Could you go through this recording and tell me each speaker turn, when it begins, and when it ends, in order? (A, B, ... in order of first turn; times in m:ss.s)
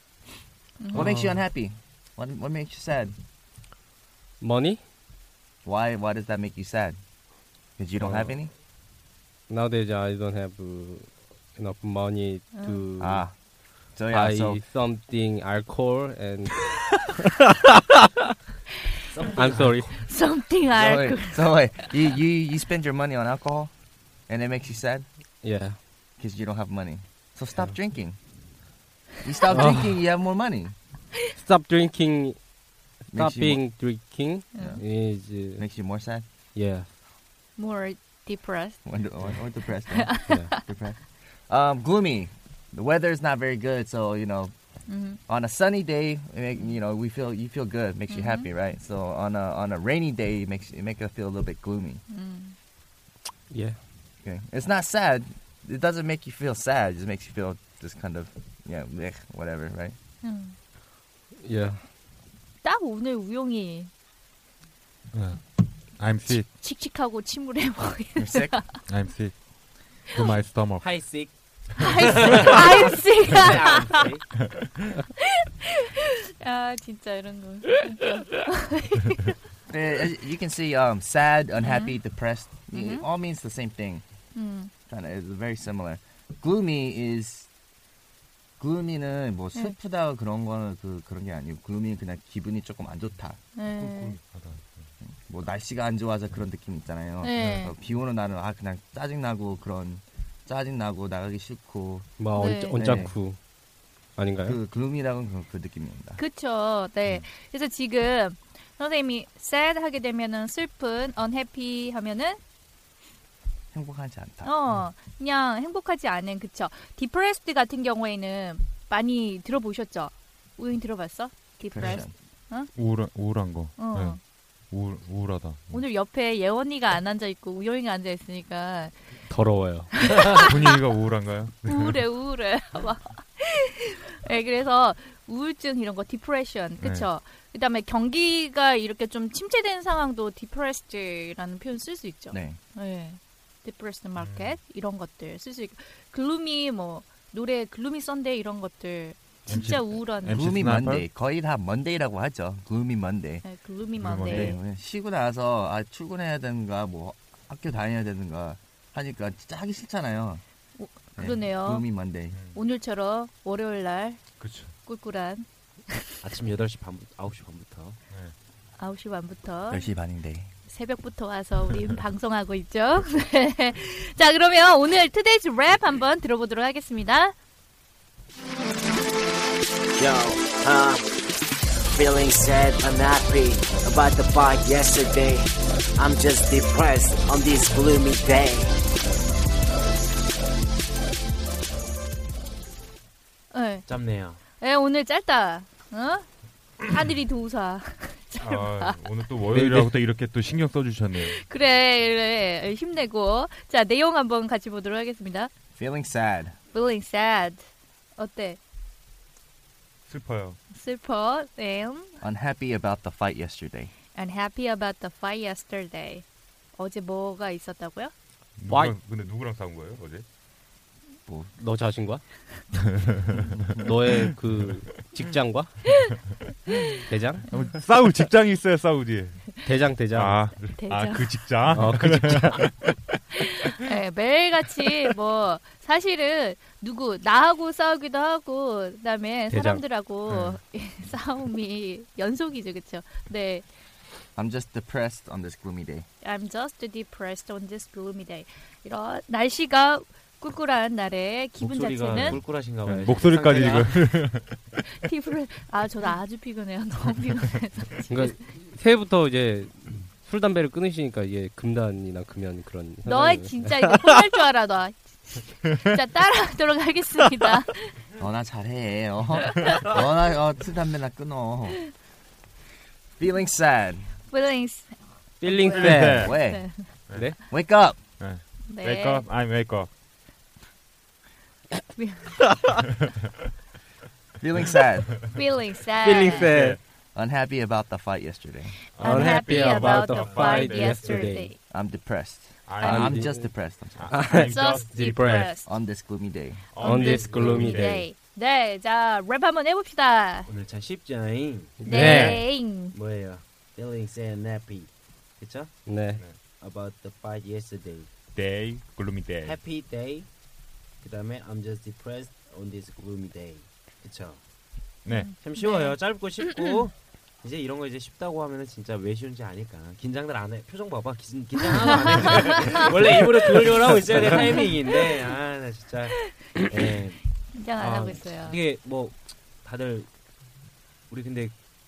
0:00.8-0:01.1 A
0:00.9-0:03.2 B
0:00.9-0:01.4 C
0:04.4-0:04.8 C
0:05.6-0:07.0 B
0:07.8-0:08.5 B
0:08.0-0:08.4 C
0:09.5-0:13.2 C
0:12.5-0:12.8 A
0:13.0-0:13.3 B
0:13.9-0:14.6 B
0:14.1-0:18.3 C
0:19.1-0:19.7 D
0:19.3-0:20.0 C
0:19.9-0:21.9 A
0:20.7-0:23.7 B
0:24.3-0:25.0 B
0:25.4-0:25.8 C
0:26.2-0:28.2 B
0:29.2-0:30.7 B
0:29.5-0:30.0 C
0:31.4-0:32.4 C
0:33.1-0:35.6 C
0:33.1-0:33.6 B
0:34.5-0:34.8 A
0:34.6-0:34.8 B
0:35.6-0:36.2 B
0:36.5-0:36.9 C
0:37.6-0:38.8 A
0:38.8-0:44.5 B
0:39.9-0:40.6 A
0:40.2-0:40.5 C
0:44.9-0:45.2 A
0:45.3-0:52.0 B
0:48.1-0:48.5 A
0:52.1-0:52.6 A
0:53.5-0:53.8 C
0:54.2-1:00.0 B
1:00.2-1:00.6 A
1:01.4-1:01.8 C
1:02.6-1:03.9 A
1:05.1-1:06.5 E
1:06.4-1:08.8 A
1:08.2-1:08.6 B
1:08.9-1:09.4 E
1:10.0-1:11.0 E
1:10.8-1:14.2 D
1:11.8-1:14.0 A
1:16.3-1:19.3 A
1:19.7-1:24.0 B
1:21.6-1:21.9 A
1:22.7-1:23.0 A
1:24.3-1:24.7 A
1:24.9-1:27.5 B
1:28.6-1:33.4 B
1:33.6-1:34.2 A
1:33.8-1:34.9 E
1:35.0-1:43.1 B
1:37.2-1:37.7 A
1:42.2-1:43.4 C
1:42.3-1:43.1 A
1:44.2-1:44.6 C
1:44.4-1:46.2 B
1:46.2-1:52.4 A
1:53.7-1:54.5 B
1:54.4-2:02.7 A
2:01.7-2:02.1 B
2:02.7-2:04.2 E
2:03.8-2:04.2 A
2:04.7-2:05.8 E
2:05.7-2:09.0 A
2:09.3-2:10.3 C
2:09.9-2:10.4 A
2:10.3-2:12.0 E
2:11.7-2:30.4 A
2:16.8-2:17.1 E
2:22.3-2:22.6 B
2:24.2-2:24.6 E
2:29.5-2:31.1 E
2:30.3-2:33.4 B
2:33.4-2:34.6 A
2:34.0-2:34.5 E
2:34.2-2:40.4 B
2:40.8-2:41.8 A
2:41.2-2:42.4 B
2:42.3-2:42.6 E
2:42.5-2:44.2 A
2:44.4-2:44.7 E
2:44.8-2:46.2 A
2:46.2-2:48.0 D
2:48.8-2:49.9 A
2:49.7-2:50.5 B
2:50.7-2:57.3 A
3:00.0-3:01.1 F
3:01.9-3:08.7 F
3:13.5-3:14.0 A
3:13.8-3:14.4 D
3:14.6-3:16.2 A
3:16.8-3:19.0 A
3:18.4-3:21.4 E
3:19.5-3:19.9 C
3:21.2-3:25.5 A
3:25.8-3:26.6 B
3:26.7-3:27.6 A
3:28.2-3:28.6 A
3:30.1-3:30.6 E
3:30.7-3:32.2 A
3:32.2-3:33.9 B
3:34.1-3:36.2 A
3:36.8-3:38.1 A
3:38.6-3:40.2 E
3:38.7-3:39.0 C
3:41.6-3:42.2 C
3:42.7-3:44.3 E
3:43.8-3:45.9 C
3:47.1-3:47.5 C
3:47.5-3:47.7 A
3:47.5-3:49.6 E
3:49.6-3:50.4 C
3:50.1-3:53.1 E
3:50.6-3:51.3 A
3:51.6-3:52.7 C
3:53.4-4:03.6 A
3:59.5-3:59.8 C
4:00.3-4:00.6 E
4:04.3-4:06.1 B
4:06.2-4:12.4 A
4:11.6-4:14.2 D
4:12.1-4:14.8 E
4:14.9-4:18.4 A
4:18.1-4:24.2 C
4:23.0-4:27.9 A
4:28.2-4:31.8 B
4:33.2-4:34.1 B
4:34.3-4:36.9 A
4:35.4-4:36.5 C
4:35.7-4:36.4 E
4:36.2-4:36.7 B
4:37.1-4:37.4 C
4:37.5-4:38.0 B
4:38.2-4:39.9 E
4:38.7-4:39.2 A
4:42.0-4:42.4 A
4:42.4-4:42.8 C
4:44.4-4:45.2 B
4:45.3-4:46.5 A
4:46.0-4:46.8 C
4:47.1-4:48.8 B
4:48.9-4:51.6 A
4:49.0-4:51.4 E
4:49.0-4:51.5 C
4:50.3-4:50.6 D
4:51.7-4:54.2 B
4:52.7-4:53.2 E
4:52.8-4:53.5 C
4:54.0-4:55.5 E
4:54.1-4:55.5 C
4:54.3-4:55.7 A
4:55.6-4:56.6 B
4:56.7-4:58.0 E
4:56.8-5:00.5 A
4:56.8-4:58.0 C
5:00.4-5:05.7 D
5:01.8-5:02.4 C
5:01.8-5:02.9 A
5:01.9-5:02.4 E
5:05.8-5:06.2 C
5:06.6-5:08.1 D
5:08.3-5:09.6 E
5:09.4-5:10.3 D
5:11.0-5:14.4 D
5:15.0-5:15.3 E
5:15.1-5:16.0 A
5:15.3-5:30.1 D
5:27.5-5:28.6 A
5:31.1-5:31.5 D